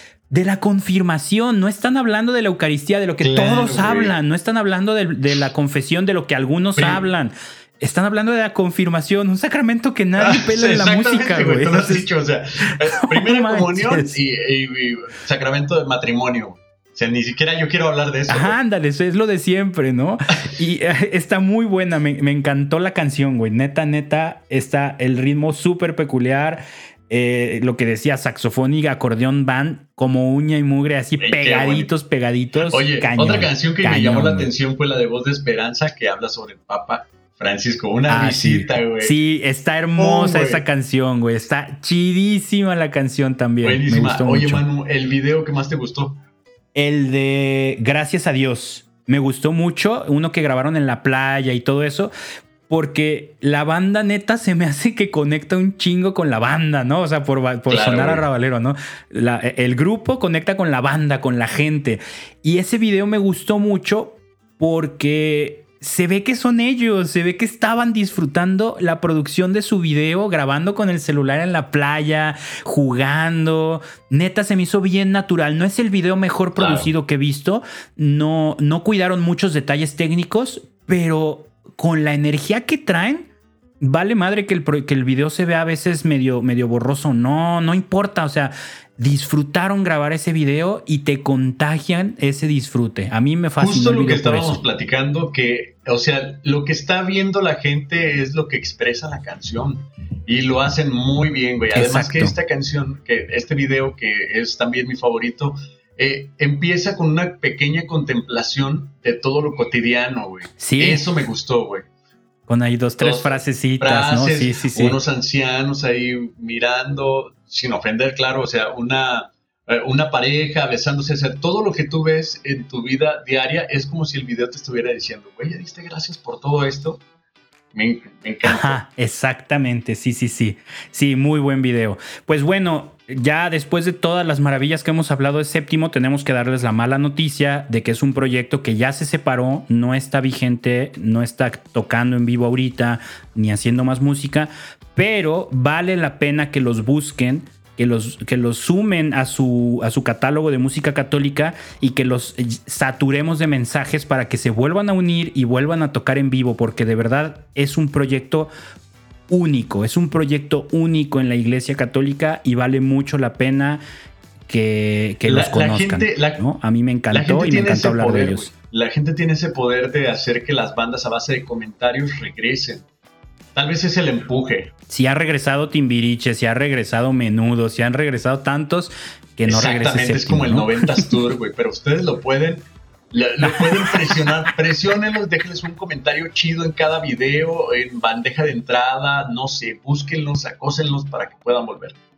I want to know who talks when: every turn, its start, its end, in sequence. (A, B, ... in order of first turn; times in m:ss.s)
0:00.3-0:12.1 A
0:03.2-0:04.2 B
0:06.7-0:07.1 B
0:10.2-0:18.6 B
0:12.8-0:14.2 A
0:18.3-0:34.5 A
0:31.2-0:31.9 B
0:32.7-0:39.2 B
0:38.1-0:44.6 A
0:40.0-0:40.6 B
0:43.6-0:46.2 B
0:46.8-0:52.1 A
0:52.7-1:23.3 A
0:57.7-0:58.2 B
1:16.6-1:16.9 B
1:23.8-1:34.6 A
1:33.6-1:51.9 B
1:41.7-1:42.4 A
1:50.6-1:51.1 A
1:52.5-1:55.0 A
1:53.0-2:07.0 B
2:07.7-2:08.8 B
2:08.4-2:38.5 A
2:39.3-2:43.8 A
2:44.5-2:48.5 A
2:45.3-2:46.4 B
2:47.1-2:52.8 B
2:53.6-2:54.7 B
2:54.9-3:01.0 A
2:59.5-3:12.0 B